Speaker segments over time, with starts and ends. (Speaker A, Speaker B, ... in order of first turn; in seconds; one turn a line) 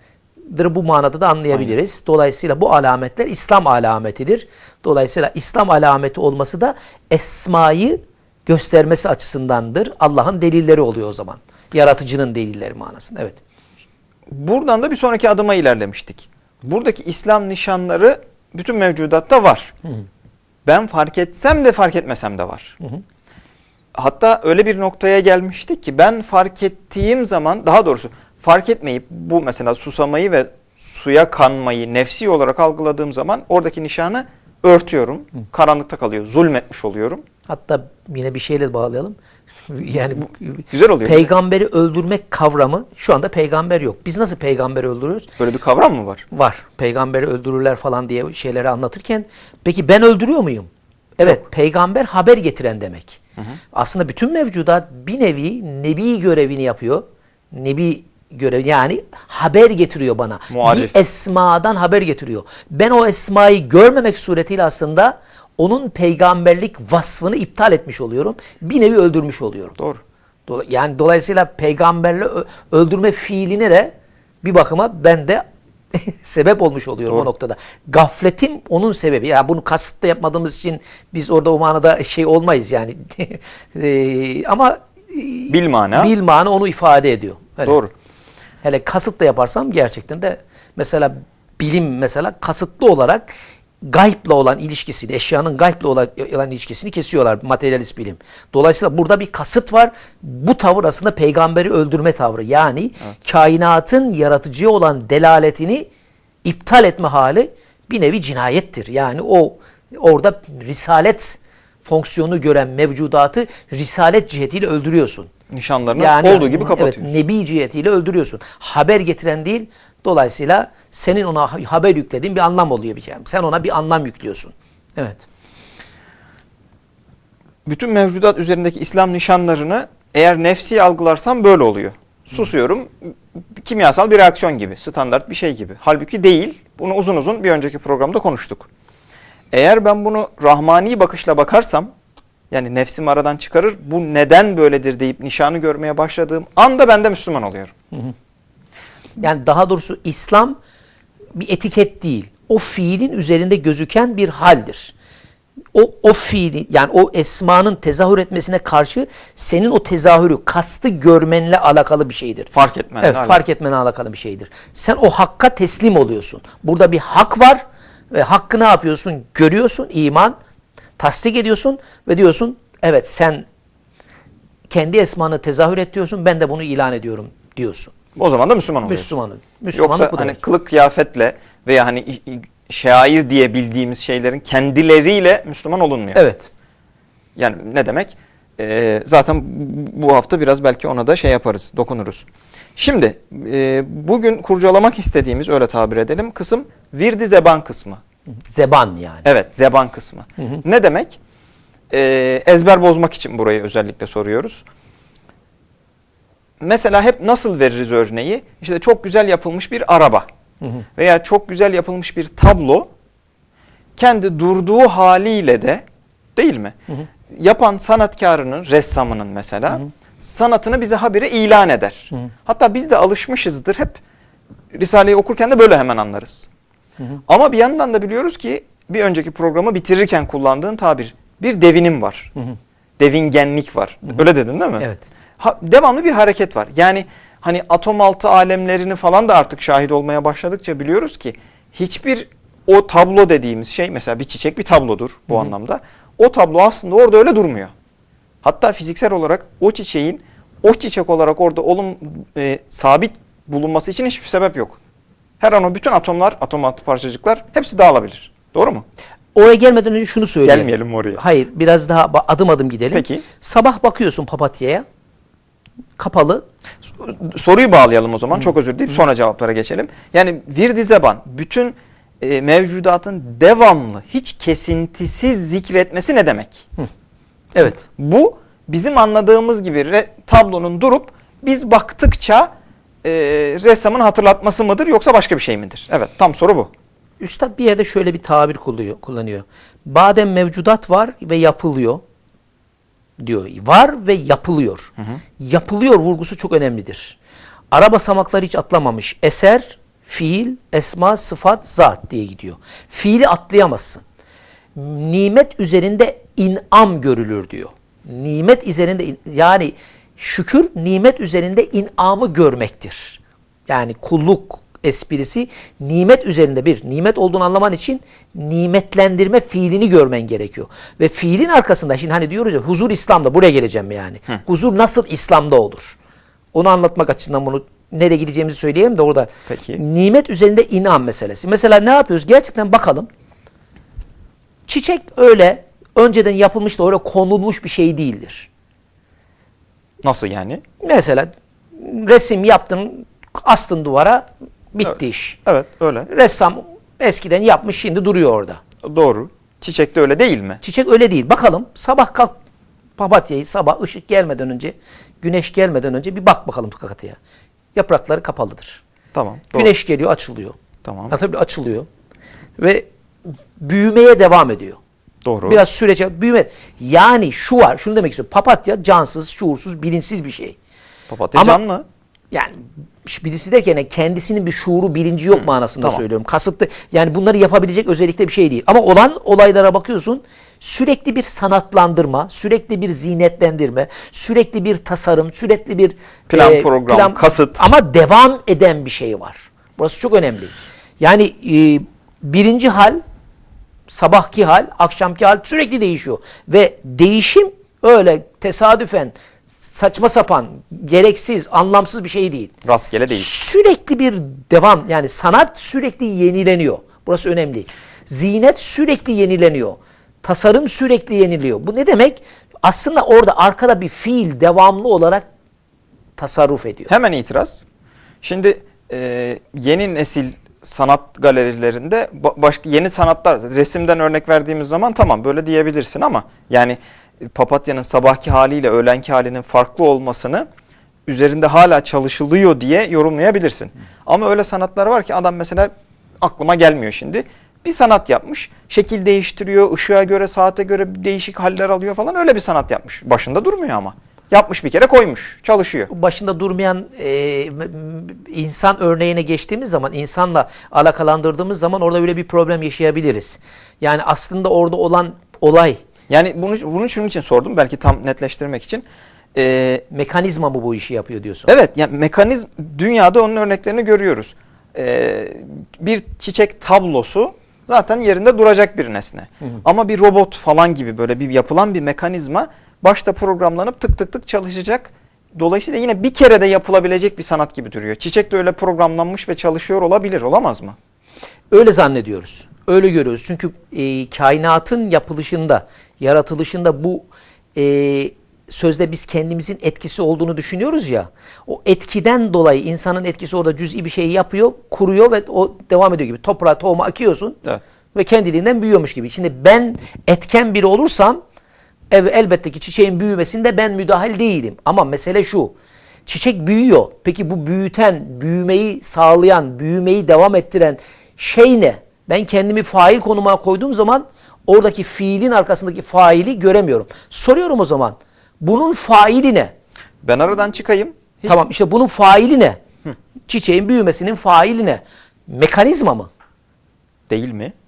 Speaker A: 0.5-13.4
Speaker B: 14.3-19.7
Speaker B: 20.6-22.8
Speaker B: 23.9-37.2
Speaker A: 37.5-39.1
Speaker A: 39.7-45.3
Speaker B: 40.2-41.3
Speaker B: 45.4-46.2
Speaker A: 46.3-53.2
Speaker A: 53.7-69.8
Speaker B: 60.5-61.0
Speaker A: 70.5-87.8
Speaker B: 85.5-86.1
Speaker B: 87.6-87.9
Speaker A: 88.6-93.3
Speaker A: 93.8-105.9
Speaker A: 106.4-115.3
Speaker B: 115.5-117.2
Speaker A: 116.0-125.2
Speaker B: 127.6-138.7
Speaker B: 139.5-141.9
Speaker B: 142.5-147.7
Speaker A: 149.2-150.6
Speaker A: 151.3-154.9
Speaker A: 155.7-170.3
Speaker B: 162.5-163.4
Speaker A: 171.0-173.5
Speaker A: 174.7-177.9
Speaker B: 178.2-179.1
Speaker A: 178.8-180.4
Speaker B: 179.7-186.2
Speaker A: 186.1-186.5
Speaker B: 187.3-198.0
Speaker A: 198.5-199.2
Speaker B: 199.2-201.2
Speaker B: 201.9-204.6
Speaker B: 206.6-210.2
Speaker B: 210.9-212.9
Speaker B: 214.0-215.8
Speaker B: 216.3-216.8
Speaker B: 217.3-224.0
Speaker B: 224.7-226.5
Speaker B: 227.3-232.3
Speaker B: 233.0-234.9
Speaker B: 235.4-247.7
Speaker B: 248.4-254.8
Speaker B: 255.4-258.8
Speaker A: 259.3-264.8
Speaker B: 260.4-261.2
Speaker B: 262.9-263.2
Speaker A: 266.0-266.4
Speaker B: 266.8-276.7
Speaker A: 277.5-277.8
Speaker B: 277.8-282.5
Speaker B: 283.0-286.7
Speaker A: 287.2-292.0
Speaker A: 293.2-297.2
Speaker A: 297.7-304.0
Speaker A: 304.8-325.9
Speaker A: 326.5-333.1
Speaker B: 329.5-329.8
Speaker A: 334.7-338.5
Speaker B: 340.0-340.6
Speaker A: 340.8-345.4
Speaker B: 344.8-346.1
Speaker A: 346.1-348.6
Speaker B: 348.8-350.6
Speaker A: 350.6-352.4
Speaker A: 353.0-357.2
Speaker A: 357.7-358.8
Speaker B: 359.1-359.7
Speaker A: 359.5-360.6
Speaker B: 360.8-361.1
Speaker A: 361.1-361.9
Speaker A: 362.6-362.9
Speaker A: 363.6-364.8
Speaker B: 365.2-365.6
Speaker A: 365.5-370.6
Speaker B: 371.1-371.8
Speaker A: 371.3-371.6
Speaker A: 372.3-393.0
Speaker B: 375.3-376.0
Speaker B: 386.3-387.6
Speaker A: 393.9-402.5
Speaker B: 402.6-403.3
Speaker A: 403.1-415.2
Speaker A: 416.2-416.9
Speaker B: 416.9-417.6
Speaker B: 418.2-430.5
Speaker B: 431.1-445.9
Speaker A: 445.9-455.8
Speaker B: 456.1-459.8
Speaker A: 459.9-461.5
Speaker B: 461.5-480.8
Speaker A: 481.5-497.4
Speaker A: 497.9-501.2
Speaker A: 501.9-505.5
Speaker A: 506.1-519.5
Speaker B: 520.0-521.4
Speaker A: 521.2-522.6
Speaker A: 523.3-526.1
Speaker B: 527.1-527.5